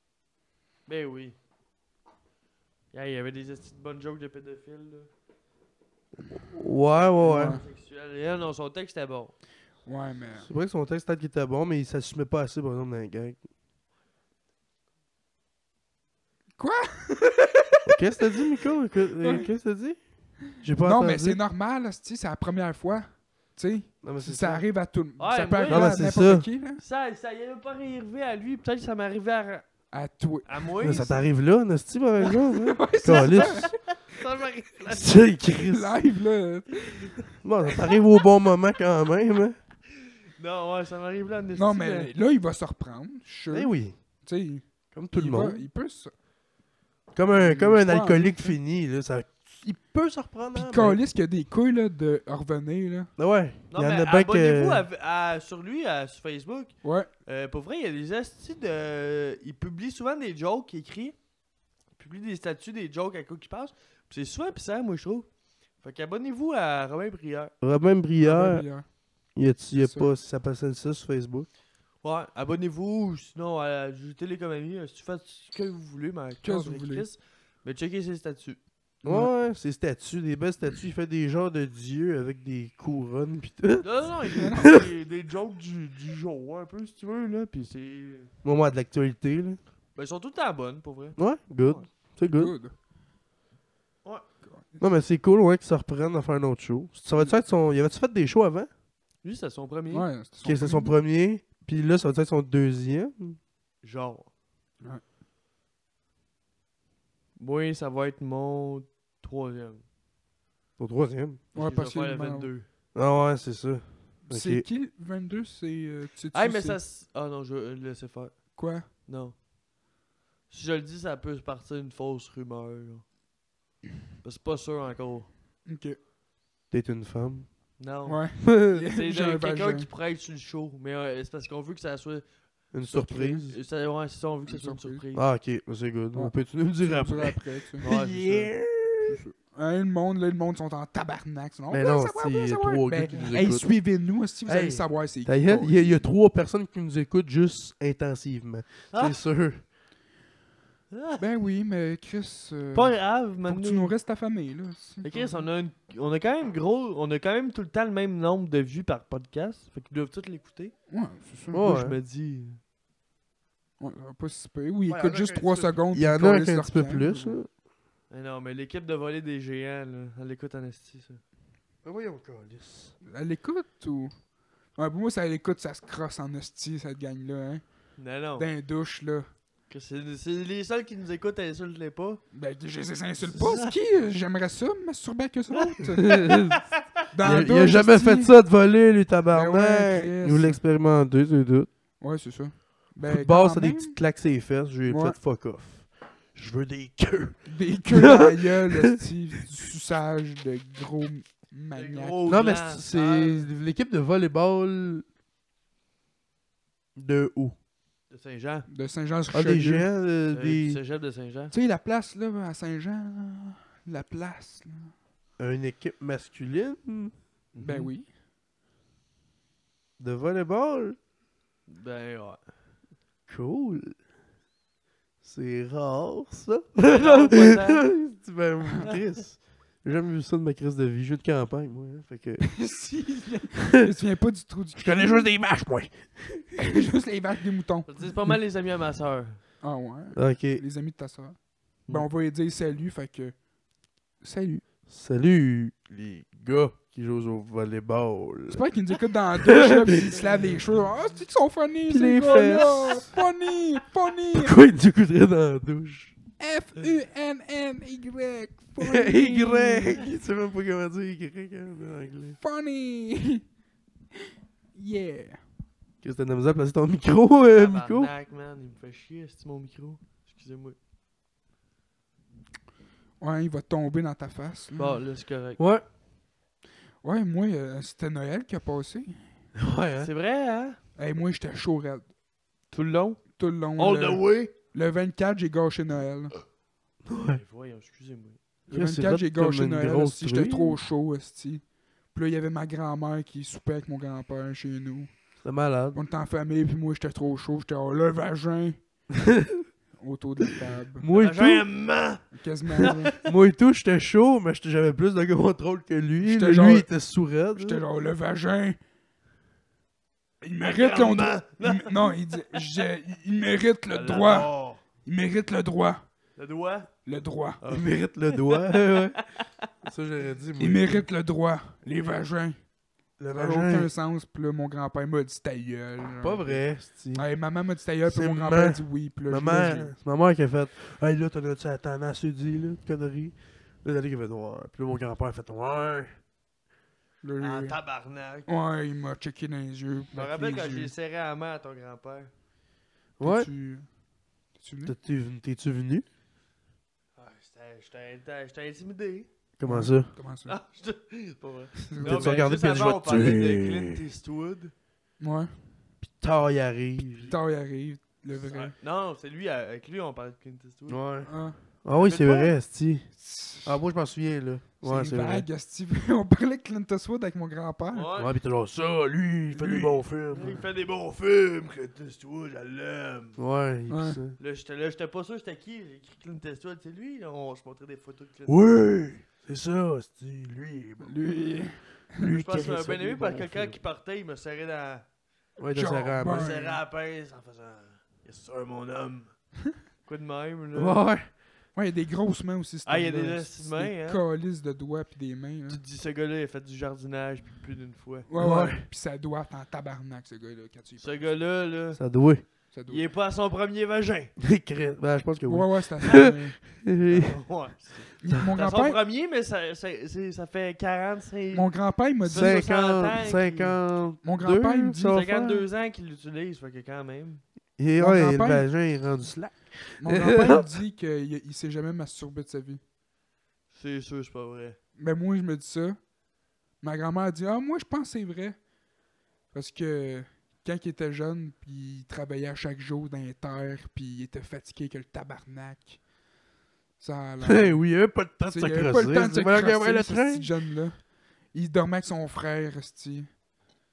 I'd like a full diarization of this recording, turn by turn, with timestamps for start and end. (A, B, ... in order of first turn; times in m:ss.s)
0:00.9-0:01.4 A
0:02.9-0:05.1 A
0:06.5-0:07.6 B
0:07.2-0:07.6 C
0:07.2-0:09.3 A
0:09.8-0:10.5 C
0:10.4-0:13.4 B
0:16.6-0:18.6 C
0:17.9-0:20.0 B
0:19.2-0:19.5 C
0:20.5-0:21.4 B
0:20.8-0:23.0 C
0:23.6-0:26.8 C
0:24.0-0:24.6 B
0:25.2-0:26.0 A
0:25.7-0:26.4 B
0:26.8-0:29.6 A
0:29.9-0:31.2 C
0:30.4-0:31.1 A
0:30.8-0:33.7 B
0:32.2-0:33.7 C
0:33.0-0:35.2 A
0:34.8-0:35.9 B
0:35.6-0:37.3 C
0:37.4-0:39.6 B
0:40.4-0:42.1 A
0:41.5-0:43.7 C
0:43.5-0:44.0 B
0:44.2-0:46.1 C
0:44.9-0:45.6 B
0:47.1-0:51.0 B
0:47.3-0:48.6 C
0:50.5-0:53.1 C
0:53.2-0:54.8 B
0:53.7-0:56.7 A
0:56.8-0:57.1 C
0:57.2-1:01.2 A
1:02.0-1:05.3 A
1:05.8-1:07.5 A
1:07.6-1:08.6 B
1:08.2-1:08.8 C
1:09.3-1:11.5 B
1:09.7-1:10.1 C
1:12.0-1:18.6 A
1:16.4-1:17.0 C
1:19.0-1:24.9 B
1:19.0-1:19.3 C
1:23.8-1:28.3 A
1:24.4-1:24.7 C
1:28.4-1:29.6 B
1:30.0-1:31.8 A
1:31.2-1:32.5 B
1:32.3-1:32.7 C
1:34.5-1:34.8 C
1:34.8-1:38.7 B
1:37.2-1:37.4 C
1:39.2-1:40.0 A
1:39.9-1:40.9 C
1:40.4-1:43.4 B
1:43.8-1:44.3 A
1:47.4-1:49.8 A
1:50.8-1:51.4 B
1:51.5-1:52.6 A
1:51.5-1:52.5 C
1:52.9-1:54.6 B
1:54.3-1:56.8 C
1:56.3-1:58.4 A
1:58.6-1:58.8 C
1:59.0-1:59.3 A
2:00.5-2:03.0 A
2:04.2-2:05.3 A
2:05.6-2:06.0 C
2:06.7-2:07.8 B
2:07.8-2:12.2 A
2:08.0-2:09.9 C
2:08.4-2:08.8 B
2:12.7-2:13.6 B
2:12.9-2:13.4 C
2:12.9-2:15.2 A
2:14.5-2:15.0 C
2:15.1-2:19.2 B
2:16.1-2:17.8 C
2:17.8-2:18.5 A
2:19.1-2:26.0 C
2:21.7-2:23.7 B
2:24.5-2:29.6 B
2:28.9-2:29.2 A
2:30.9-2:31.2 A
2:31.2-2:35.4 C
2:32.7-2:33.9 A
2:35.0-2:40.7 A
2:40.9-2:41.7 C
2:41.5-2:42.0 B
2:41.6-2:42.6 A
2:43.8-2:47.4 C
2:44.9-2:47.5 B
2:48.1-2:51.2 A
2:51.8-2:52.9 B
2:53.0-2:54.1 C
2:54.8-2:57.6 C
2:58.0-2:58.5 A
2:58.4-2:59.2 C
2:59.7-3:02.2 A
3:02.3-3:06.3 C
3:03.3-3:03.7 A
3:06.0-3:06.6 B
3:06.0-3:07.0 A
3:07.1-3:08.3 C
3:07.2-3:11.7 B
3:09.3-3:10.6 C
3:12.0-3:14.0 C
3:13.1-3:19.0 B
3:14.8-3:15.2 C
3:17.5-3:22.2 C
3:21.7-3:23.5 A
3:22.3-3:25.0 B
3:27.0-3:27.5 B
3:28.1-3:28.6 A
3:28.7-3:29.8 C
3:29.3-3:30.8 B
3:30.3-3:31.5 A
3:31.5-3:34.9 C
3:35.4-3:37.1 B
3:37.5-3:37.9 A
3:37.6-3:38.1 C
3:40.0-3:41.0 B
3:41.7-3:42.4 A
3:43.3-3:43.9 B
3:45.2-3:52.6 B
3:46.8-3:47.8 A
3:52.4-3:55.3 C
3:54.8-3:56.6 B
3:56.6-3:57.9 C
3:57.9-3:59.4 A
3:59.6-4:01.4 C
4:00.1-4:00.6 B
4:01.9-4:03.3 C
4:04.2-4:04.6 C
4:04.9-4:08.6 B
4:08.5-4:14.6 C
4:09.3-4:10.2 B
4:11.9-4:13.1 B
4:12.3-4:13.2 A
4:14.3-4:16.2 B
4:16.4-4:20.1 C
4:18.8-4:22.4 B
4:22.4-4:23.4 C
4:24.2-4:25.4 C
4:26.0-4:28.1 B
4:27.5-4:30.8 A
4:33.2-4:35.0 C
4:34.8-4:35.6 A
4:35.6-4:35.8 B
4:37.0-4:39.2 C
4:39.6-4:40.1 B
4:40.0-4:40.8 A
4:41.0-4:42.1 C
4:42.7-4:43.2 A
4:43.4-4:46.3 C
4:43.8-4:44.5 A
4:47.0-4:47.4 B
4:47.2-4:48.4 A
4:48.7-4:55.2 C
4:48.7-4:50.8 B
4:55.4-4:56.0 B
4:55.9-4:58.8 C
4:59.1-4:59.6 B
5:00.0-5:01.0 C
5:00.5-5:01.6 B
5:01.1-5:03.2 A
5:02.3-5:03.1 C
5:03.2-5:07.8 B
5:06.2-5:06.9 C
5:07.6-5:08.8 C
5:10.4-5:14.5 C
5:10.6-5:12.1 A
5:13.9-5:14.8 A
5:15.0-5:16.0 C
5:16.4-5:16.9 A
5:17.0-5:17.6 C
5:17.6-5:19.2 A
5:17.7-5:19.2 B
5:19.8-5:21.0 B
5:20.6-5:22.6 C
5:23.2-5:23.9 B
5:23.3-5:26.6 C
5:26.2-5:27.2 B
5:27.1-5:29.9 C
5:28.0-5:36.1 B
5:37.2-5:37.8 C
5:37.4-5:38.5 A
5:38.5-5:40.9 C
5:40.1-5:42.3 A
5:43.2-5:43.5 B
5:43.2-5:43.9 C
5:44.6-5:44.9 C
5:44.8-5:46.0 B
5:47.2-5:49.3 A
5:49.6-5:50.1 B
5:49.6-5:50.5 C
5:50.5-5:54.7 A
5:51.8-5:52.5 C
5:52.0-5:54.0 B
5:55.2-5:55.5 C
5:56.0-5:57.3 B
5:57.3-5:58.7 C
5:58.3-6:01.0 A
6:00.9-6:01.3 B
6:01.3-6:01.6 C
6:01.8-6:03.1 B
6:01.9-6:02.5 A
6:03.2-6:03.8 C
6:03.6-6:05.4 B
6:04.8-6:08.1 C
6:07.9-6:08.3 A
6:08.2-6:10.6 B
6:09.5-6:10.0 C
6:10.3-6:13.4 A
6:13.4-6:14.4 B
6:13.9-6:14.2 C
6:14.4-6:18.7 A
6:18.5-6:21.1 B
6:21.0-6:22.9 C
6:22.2-6:25.0 A
6:22.3-6:23.8 B
6:25.6-6:26.6 B
6:25.7-6:26.8 C
6:26.2-6:29.3 A
6:30.0-6:31.0 A
6:30.7-6:31.3 B
6:31.7-6:35.8 C
6:32.8-6:34.2 A
6:35.7-6:38.3 A
6:38.3-6:41.3 C
6:38.4-6:38.9 B
6:41.0-6:42.0 A
6:41.9-6:42.4 B
6:42.7-6:43.0 C
6:42.9-6:44.3 A
6:44.4-6:47.4 B
6:45.5-6:46.6 C
6:47.0-6:51.7 A
6:48.2-6:49.0 C
6:51.5-6:52.5 C
6:52.2-6:53.8 A
6:52.3-6:55.7 B
6:54.2-6:55.2 C
6:55.1-6:57.4 A
6:57.8-7:00.7 B
6:58.0-6:58.6 C
7:00.0-7:02.8 C
7:03.7-7:04.8 A
7:05.0-7:06.0 C
7:06.8-7:08.6 C
7:09.5-7:16.0 C
7:17.0-7:17.8 C
7:17.4-7:20.5 B
7:18.5-7:21.0 C
7:21.5-7:23.3 C